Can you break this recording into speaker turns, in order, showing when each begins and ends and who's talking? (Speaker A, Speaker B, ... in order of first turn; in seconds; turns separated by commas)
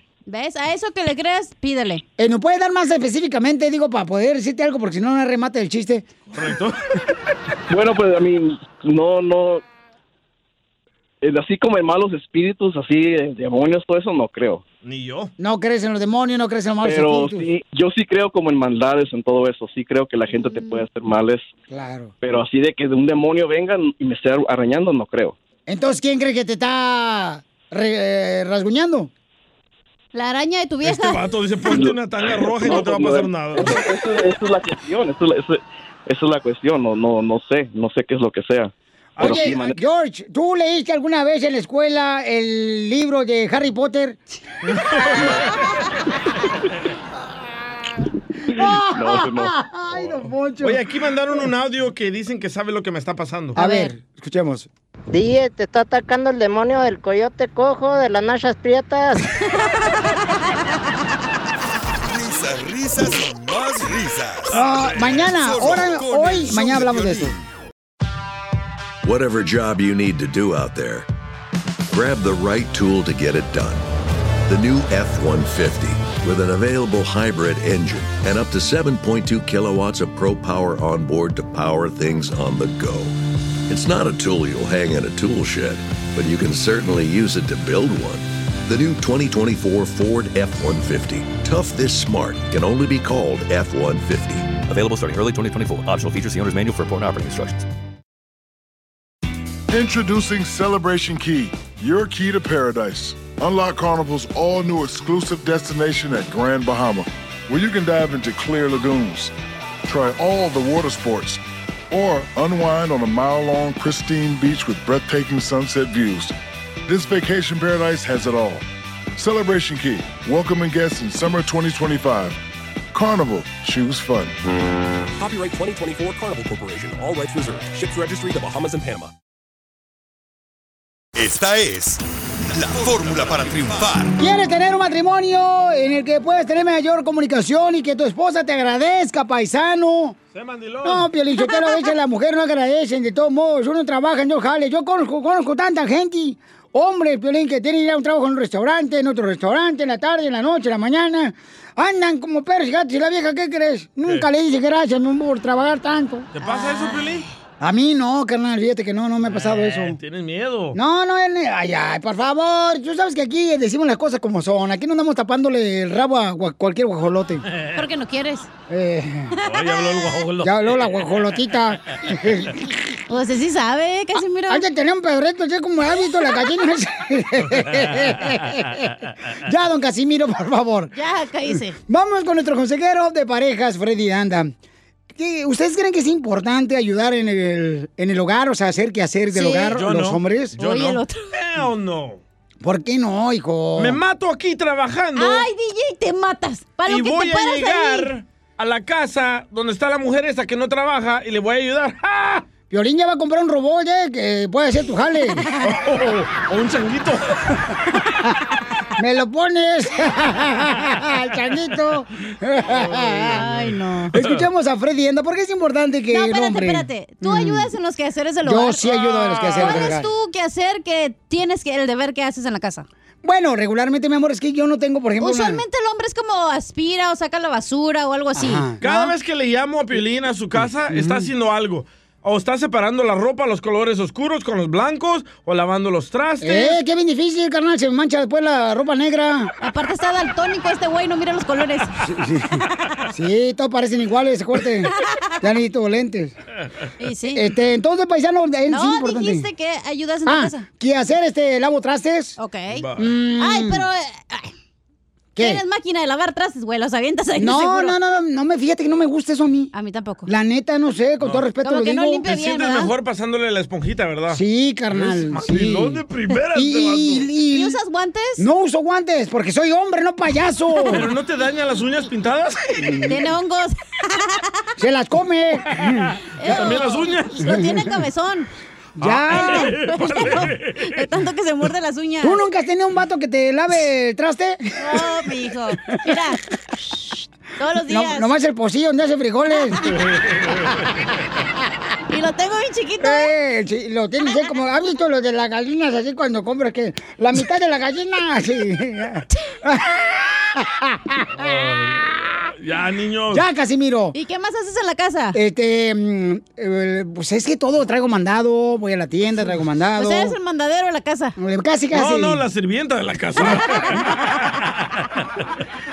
Speaker A: 0.2-2.0, Speaker B: 2.2-6.1, Speaker C: 6.3-6.8, Speaker D: 7.7-9.6, Speaker D: 11.2-14.6, Speaker C: 14.8-15.3, Speaker B: 15.4-17.5, Speaker D: 16.8-21.5, Speaker A: 20.4-20.8, Speaker B: 21.7-22.1, Speaker D: 22.2-25.3, Speaker B: 25.7-29.1, Speaker A: 30.1-31.2, Speaker C: 30.8-33.8, Speaker D: 31.6-39.8, Speaker C: 39.2-39.6, Speaker B: 39.2-44.2, Speaker C: 44.7-45.2, Speaker D: 48.5-49.5, Speaker B: 48.5-50.8, Speaker C: 50.6-53.6, Speaker B: 53.5-54.7, Speaker A: 53.5-53.9, Speaker E: 55.1-59.2, Speaker A: 59.6-60.4, Speaker F: 62.1-67.4, Speaker B: 64.5-67.3, Speaker G: 69.0-71.1, Speaker G: 71.9-73.8, Speaker G: 74.5-83.1, Speaker G: 83.7-94.6, Speaker H: 94.6-97.7, Speaker I: 99.7-109.3, Speaker I: 109.8-116.3, Speaker I: 116.9-122.4, Speaker I: 122.9-124.3, Speaker J: 125.2-129.1, Speaker F: 131.2-134.1, Speaker B: 134.2-140.2, Speaker C: 140.3-141.1, Speaker B: 140.8-156.3, Speaker A: 141.4-141.8, Speaker C: 156.3-157.2, Speaker A: 156.4-157.2, Speaker B: 157.6-160.0, Speaker C: 159.2-160.8, Speaker B: 160.7-167.4, Speaker C: 167.5-167.8, Speaker A: 167.7-168.5, Speaker B: 168.7-169.3, Speaker A: 169.4-170.2, Speaker C: 169.4-171.2, Speaker B: 170.4-172.7, Speaker A: 173.1-174.6, Speaker B: 174.5-180.9, Speaker A: 180.9-181.8, Speaker B: 181.8-184.5, Speaker B: 185.1-190.6, Speaker A: 189.3-189.8, Speaker C: 189.6-192.2, Speaker A: 190.6-191.3, Speaker B: 192.6-194.0, Speaker C: 193.8-195.5, Speaker A: 195.2-198.1, Speaker C: 196.8-202.4, Speaker B: 202.7-205.5, Speaker C: 205.6-207.4, Speaker B: 209.0-213.5, Speaker C: 212.7-214.4, Speaker A: 213.3-214.2, Speaker B: 214.1-217.7, Speaker A: 216.1-222.9, Speaker B: 218.4-220.1, Speaker C: 219.1-219.9, Speaker B: 223.2-225.6, Speaker A: 225.2-229.0, Speaker B: 228.3-229.1, Speaker C: 228.8-236.8, Speaker B: 230.9-231.3, Speaker B: 236.4-239.5, Speaker A: 239.6-241.9, Speaker B: 242.0-246.3, Speaker A: 247.0-247.4, Speaker B: 247.3-249.5, Speaker A: 248.7-250.7, Speaker B: 250.2-252.4, Speaker A: 252.4-252.9, Speaker C: 252.7-253.1, Speaker B: 253.0-253.8, Speaker A: 253.4-254.5, Speaker B: 255.3-255.6, Speaker A: 255.4-257.9, Speaker B: 257.4-259.7, Speaker A: 259.7-260.3, Speaker B: 260.2-262.2, Speaker C: 261.2-261.5, Speaker A: 261.6-262.9, Speaker C: 262.2-267.3, Speaker B: 264.3-266.0, Speaker B: 266.5-267.8, Speaker A: 267.5-268.4, Speaker B: 268.4-271.1, Speaker C: 270.8-273.1, Speaker B: 272.8-273.2, Speaker A: 273.0-274.5, Speaker B: 274.8-276.1, Speaker A: 276.4-278.5, Speaker C: 276.4-277.4, Speaker B: 277.5-277.9, Speaker B: 279.0-279.7, Speaker C: 279.0-280.8, Speaker A: 279.3-282.4, Speaker B: 282.2-285.1, Speaker A: 284.8-286.4, Speaker A: 287.6-288.3, Speaker B: 287.9-290.0, Speaker A: 292.1-293.3, Speaker B: 293.0-301.5, Speaker C: 301.4-303.4, Speaker B: 303.3-304.1, Speaker A: 304.1-305.4, Speaker B: 305.3-310.4, Speaker A: 310.0-311.4, Speaker B: 311.4-312.4, Speaker C: 311.9-314.4